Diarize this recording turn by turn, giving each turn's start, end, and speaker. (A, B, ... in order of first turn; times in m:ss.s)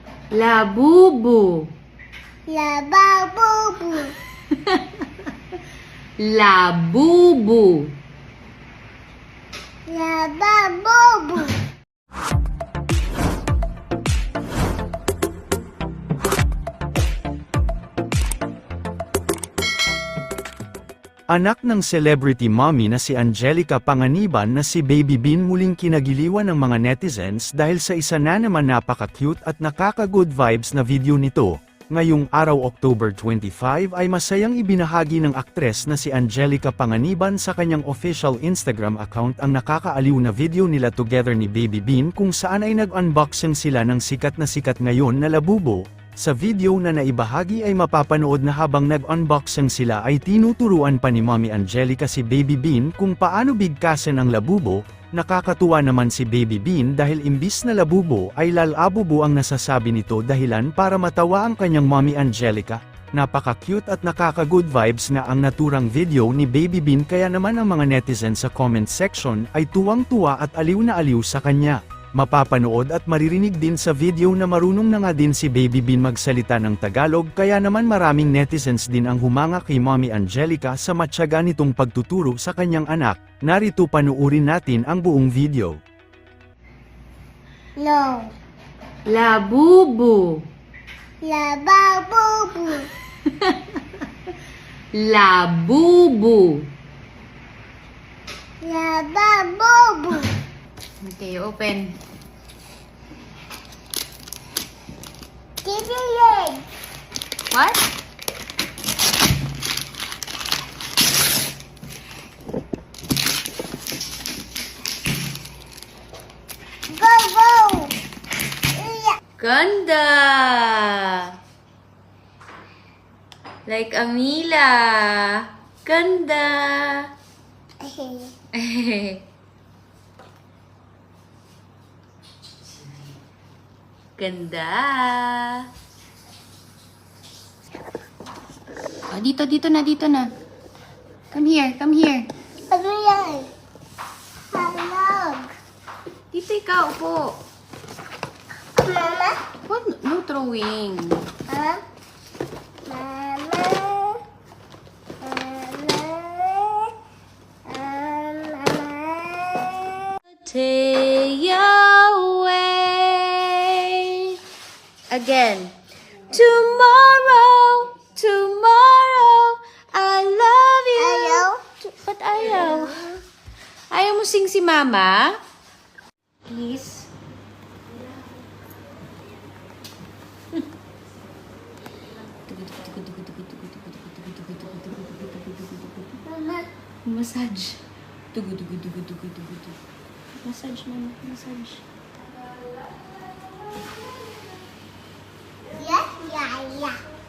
0:00.3-0:01.7 A
0:02.5-0:04.1 B
0:04.5-0:05.0 A
0:06.2-0:08.0 A
0:09.9-0:11.6 B
0:21.3-1:25.8 C
1:27.8-1:28.3 B
1:29.1-1:30.4 A
1:31.2-1:32.9 B
1:33.3-1:33.8 A
1:34.9-1:36.7 A
1:38.6-1:40.3 B
1:41.0-1:42.0 A
1:45.6-1:46.7 B
1:47.5-1:47.9 A
1:56.9-1:58.0 B
1:58.8-1:59.2 B
1:59.4-2:01.4 A
2:03.7-2:07.1 A
2:07.8-2:08.3 B
2:08.5-2:09.2 A
2:14.2-2:15.7 A
2:19.1-2:20.3 A
2:21.3-2:22.3 A
2:22.7-2:23.5 B
2:24.5-2:25.5 B
2:26.3-2:27.4 A
2:28.8-2:29.4 B
2:29.6-2:31.3 A
2:31.5-2:31.8 B
2:32.8-2:34.2 B
2:35.2-2:36.9 B
2:37.7-2:40.1 B
2:40.4-2:44.4 A
2:45.1-2:45.8 A
2:46.3-2:53.2 A
2:51.0-2:51.6 B
2:53.9-2:55.4 A
2:56.5-2:57.1 A
3:02.5-3:06.3 A
3:07.0-3:09.8 A
3:10.4-3:11.9 A
3:15.7-3:17.0 B